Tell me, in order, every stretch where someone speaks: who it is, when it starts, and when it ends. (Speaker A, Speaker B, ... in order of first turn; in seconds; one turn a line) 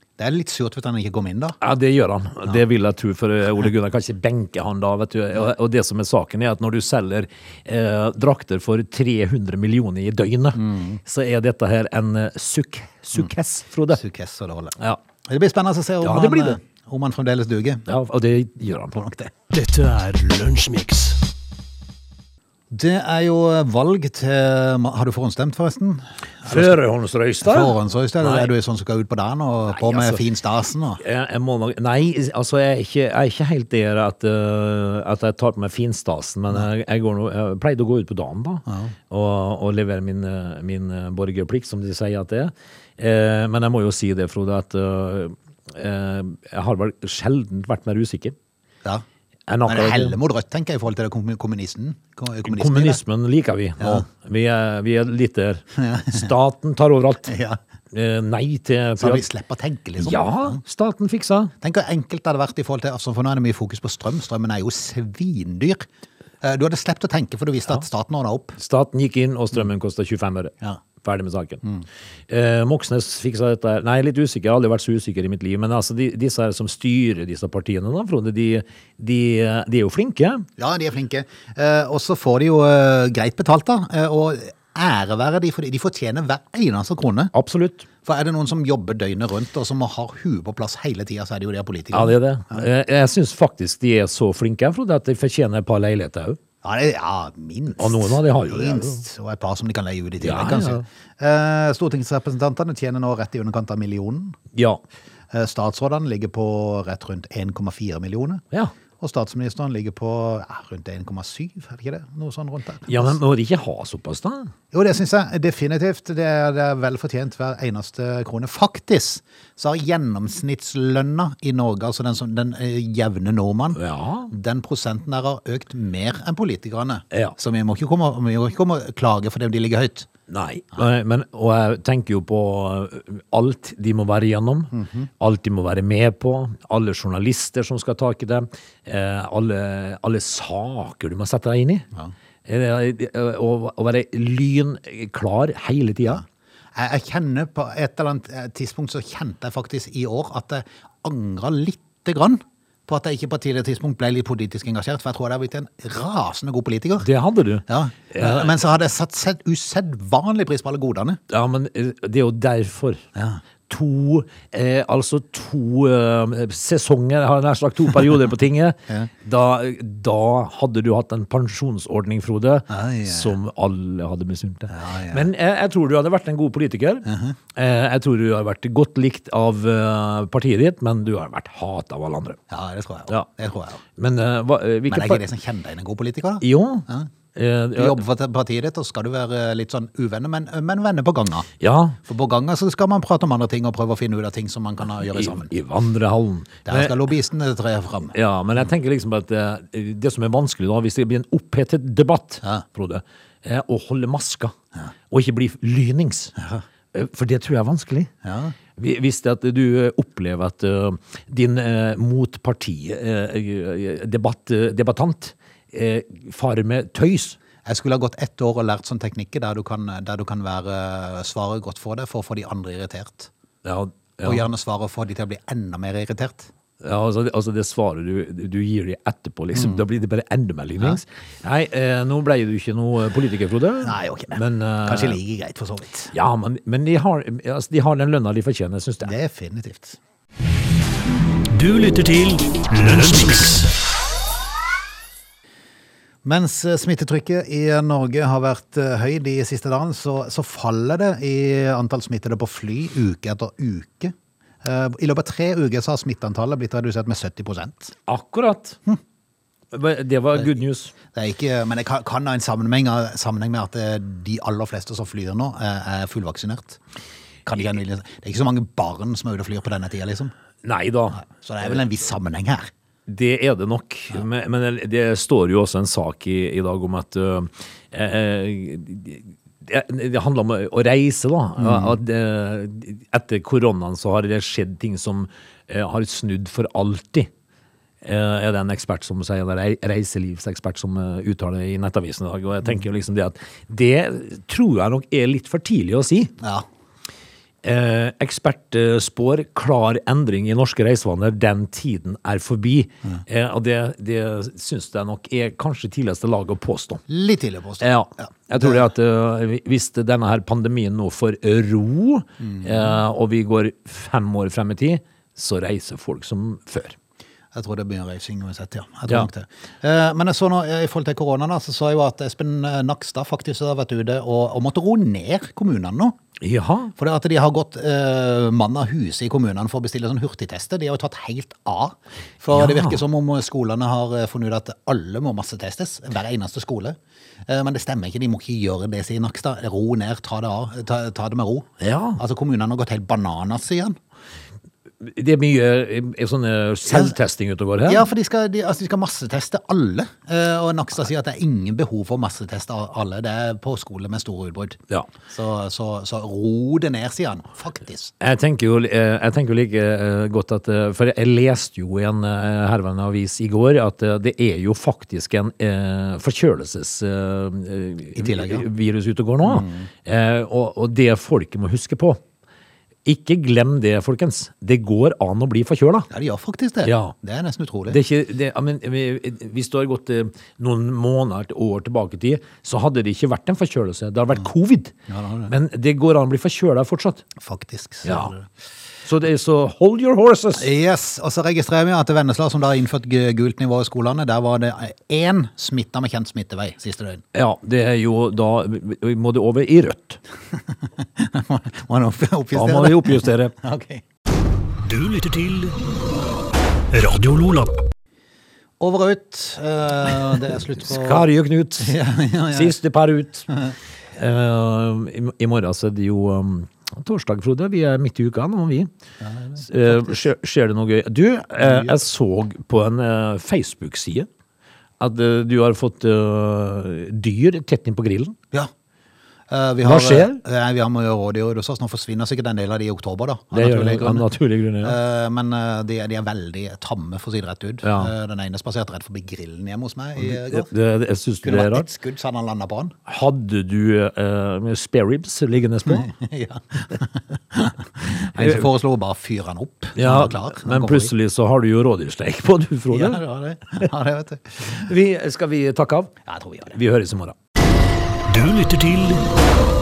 Speaker A: 0.2-1.6
Speaker B: 1.6-14.0
Speaker A: 10.6-11.0
Speaker A: 13.9-17.9
Speaker B: 16.0-16.6
Speaker B: 17.9-19.0
Speaker A: 18.9-19.3
Speaker C: 19.5-21.2
Speaker A: 22.7-26.8
Speaker B: 26.4-28.5
Speaker A: 27.4-31.0
Speaker B: 29.7-30.2
Speaker B: 31.0-48.4
Speaker A: 38.7-39.0
Speaker B: 49.5-50.2
Speaker A: 49.7-53.0
Speaker B: 52.5-57.3
Speaker A: 53.8-54.1
Speaker A: 55.8-56.3
Speaker A: 57.3-57.6
Speaker B: 57.9-59.3
Speaker A: 59.0-60.6
Speaker B: 60.0-61.5
Speaker A: 61.6-65.9
Speaker A: 66.4-68.6
Speaker B: 68.6-71.6
Speaker B: 72.3-80.5
Speaker A: 80.6-87.3
Speaker B: 87.3-87.9
Speaker A: 88.0-92.6
Speaker B: 91.9-96.4
Speaker A: 96.6-104.4
Speaker B: 97.8-99.0
Speaker B: 100.2-100.8
Speaker B: 104.5-104.8
Speaker A: 105.3-108.4
Speaker A: 109.0-113.2
Speaker B: 112.9-114.5
Speaker A: 114.7-130.1
Speaker B: 123.8-124.3
Speaker B: 130.3-141.9
Speaker A: 134.7-135.1
Speaker B: 142.5-146.2
Speaker A: 146.8-157.1
Speaker B: 157.0-158.6
Speaker A: 157.7-161.2
Speaker B: 161.3-163.0
Speaker A: 163.2-163.4
Speaker B: 163.7-182.4
Speaker A: 172.7-173.4
Speaker A: 174.7-175.3
Speaker A: 177.1-177.4
Speaker A: 182.5-183.8
Speaker B: 184.0-185.2
Speaker A: 184.9-187.1
Speaker B: 186.4-188.0
Speaker A: 187.7-191.5
Speaker B: 191.6-192.0
Speaker A: 192.0-195.5
Speaker B: 195.1-197.0
Speaker A: 196.7-198.2
Speaker B: 198.1-204.6
Speaker B: 205.1-206.3
Speaker A: 206.4-206.6
Speaker B: 206.9-208.1
Speaker A: 208.2-208.6
Speaker B: 208.8-217.4
Speaker A: 217.6-223.3
Speaker B: 223.6-224.4
Speaker A: 224.2-226.5
Speaker B: 226.8-235.2
Speaker A: 229.6-229.8
Speaker A: 233.8-236.1
Speaker B: 236.1-239.1
Speaker A: 239.0-240.0
Speaker C: 241.5-243.7
Speaker A: 246.2-257.9
Speaker B: 258.1-258.8
Speaker B: 259.7-260.9
Speaker A: 261.1-266.8
Speaker A: 267.5-270.3
Speaker B: 270.6-271.2
Speaker A: 271.2-272.7
Speaker B: 273.1-287.3
Speaker A: 281.6-281.9
Speaker B: 288.0-296.3
Speaker A: 296.4-296.7
Speaker B: 297.6-307.0
Speaker A: 307.1-308.8
Speaker B: 307.8-317.0
Speaker A: 312.4-312.9
Speaker A: 317.5-326.2
Speaker B: 326.4-326.9
Speaker A: 327.0-344.0
Speaker B: 332.5-333.0
Speaker B: 341.8-342.2
Speaker B: 345.0-348.1
Speaker A: 346.9-347.1
Speaker A: 347.9-358.1
Speaker B: 358.2-372.2
Speaker A: 368.2-368.6
Speaker A: 369.4-369.9
Speaker B: 373.1-376.1
Speaker A: 376.1-378.0
Speaker B: 376.8-377.1
Speaker B: 377.9-384.9
Speaker A: 385.1-385.5
Speaker B: 385.5-387.2
Speaker A: 387.4-388.5
Speaker B: 388.1-388.3
Speaker B: 389.1-390.7
Speaker A: 390.6-397.2
Speaker B: 397.3-400.2
Speaker A: 401.0-404.0
Speaker B: 402.5-403.6
Speaker C: 404.8-405.8
Speaker C: 406.9-407.8
Speaker A: 408.8-411.3
Speaker B: 410.8-412.0
Speaker A: 411.8-412.8
Speaker B: 412.5-413.5
Speaker B: 414.2-418.9
Speaker A: 419.2-420.2
Speaker B: 419.6-424.3
Speaker A: 421.6-421.9
Speaker B: 425.0-428.4
Speaker A: 429.5-434.3
Speaker B: 429.8-430.4
Speaker B: 433.5-435.0
Speaker A: 434.8-440.7
Speaker B: 437.8-438.1
Speaker B: 440.2-441.9
Speaker A: 441.4-442.9
Speaker B: 443.1-446.1
Speaker A: 445.9-451.1
Speaker B: 448.4-448.7
Speaker B: 450.0-453.2
Speaker A: 452.9-454.9
Speaker B: 454.7-456.1
Speaker A: 456.3-456.8
Speaker B: 456.7-457.4
Speaker C: 458.3-459.3